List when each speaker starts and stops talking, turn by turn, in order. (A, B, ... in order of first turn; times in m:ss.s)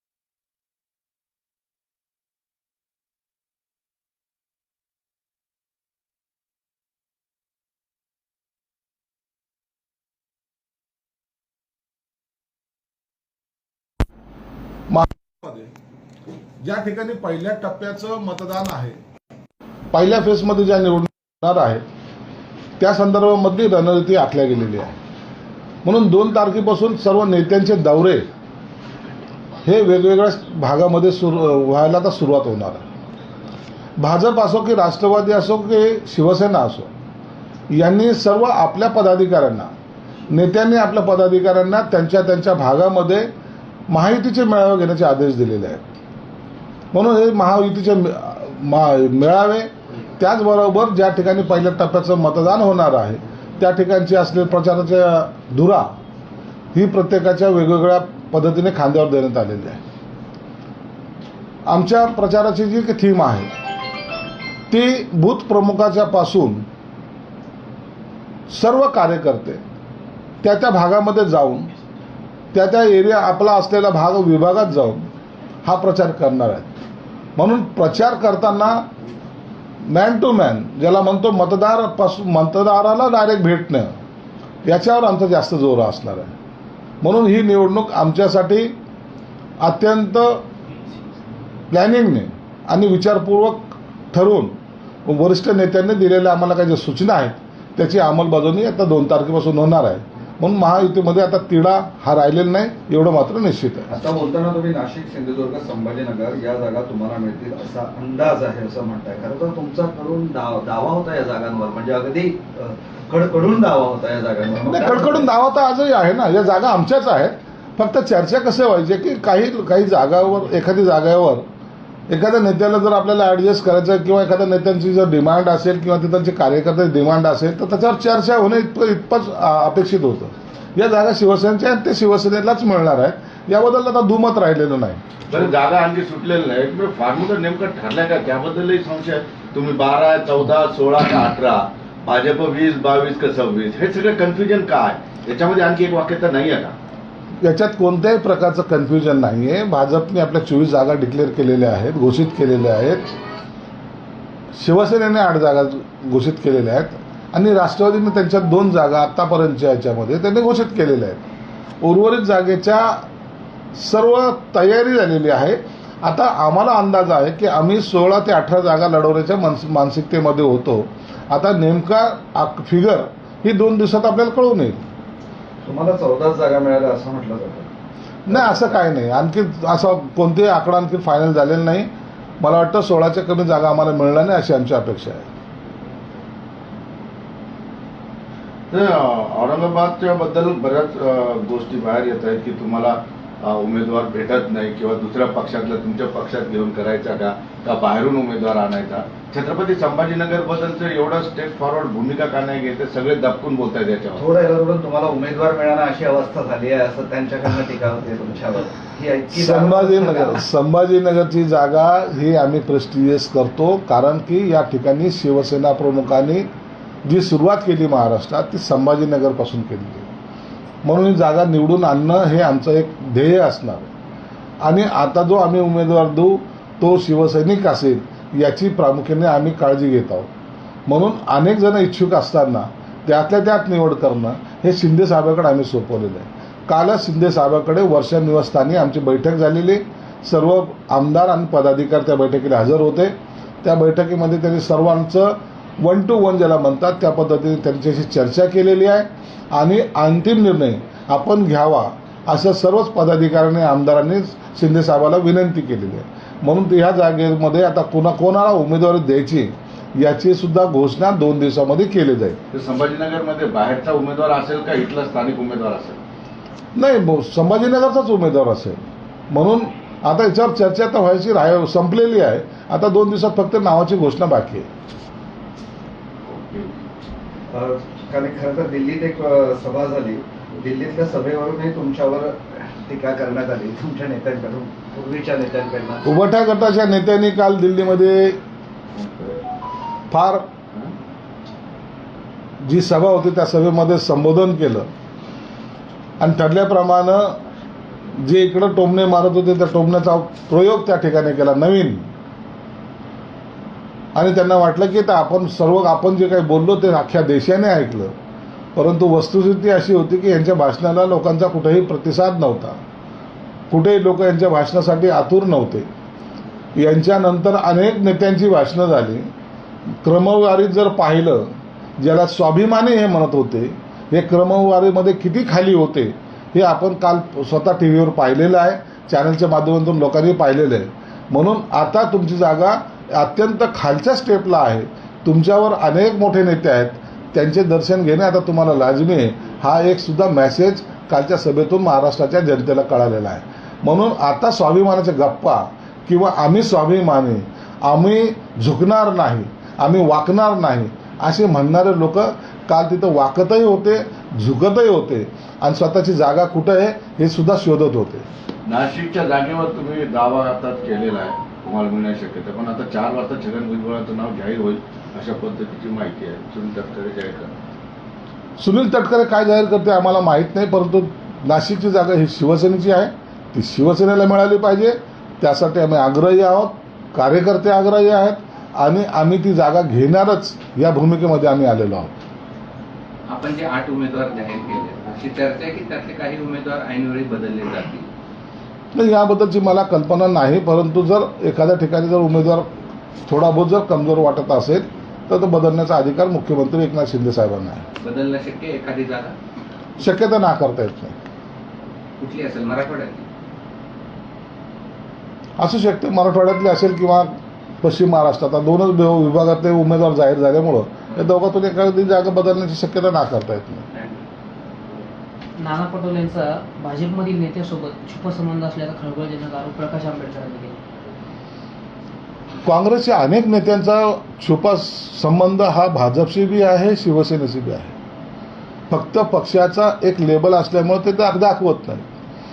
0:14.9-0:15.7 A
0:16.6-0:19.0 A
0:19.9-0:21.8 A
0:22.8-0:25.0 A
0:25.8-0:28.3 A
0:29.6-0:32.8 A
0:34.0-0:36.9 A
0:37.7-0:39.7 A
0:40.3-0:43.3 A
0:43.9-0:45.8 A
0:46.9-0:55.9 A
0:56.7-0:59.8 A
1:01.7-1:03.5 A
1:04.7-1:06.6 A
1:08.5-1:09.6 A
1:10.4-1:11.7 A
1:12.5-1:15.1 A
1:15.6-1:16.7 A
1:17.4-1:18.9 A
1:19.9-1:24.0 A
1:24.7-1:26.4 A
1:27.0-1:28.7 A
1:29.6-1:30.4 A
1:31.7-1:34.6 A
1:35.1-1:43.9 A
1:43.9-1:55.3 B
1:54.7-2:01.5 A
2:02.1-2:15.0 A
2:15.3-2:26.8 C
2:27.4-2:33.1 A
2:34.5-2:41.2 A
2:41.8-2:43.1 A
2:43.8-2:54.8 A
2:55.6-2:57.7 B
2:58.3-3:05.3 A
2:58.3-2:58.7 B
3:08.7-3:24.3 C
3:24.2-3:30.4 B
3:29.3-3:36.5 A
3:37.0-3:40.1 A
3:40.8-3:43.9 A
3:44.6-3:50.3 A
3:50.9-4:22.4 A
4:22.5-4:26.0 C
4:26.8-4:34.7 A
4:36.3-4:36.7 C
4:37.5-4:46.1 B
4:46.0-4:48.4 A
4:50.1-4:50.5 A
4:52.6-4:54.9 A
4:56.2-4:57.4 A
4:58.2-5:02.1 A
5:04.2-5:08.1 A
5:08.8-5:12.8 A
5:13.7-5:15.9 A
5:16.8-5:19.3 A
5:20.0-5:58.3 A
5:58.7-6:07.5 C
6:08.6-6:22.1 A
6:23.3-6:28.1 D
6:28.9-6:32.7 A
6:33.3-6:37.9 A
6:38.0-6:39.4 D
6:40.0-6:41.2 A
6:42.2-6:43.3 D
6:45.6-6:53.9 A
6:55.6-7:00.8 E
7:02.6-7:08.0 A
7:08.9-7:12.0 A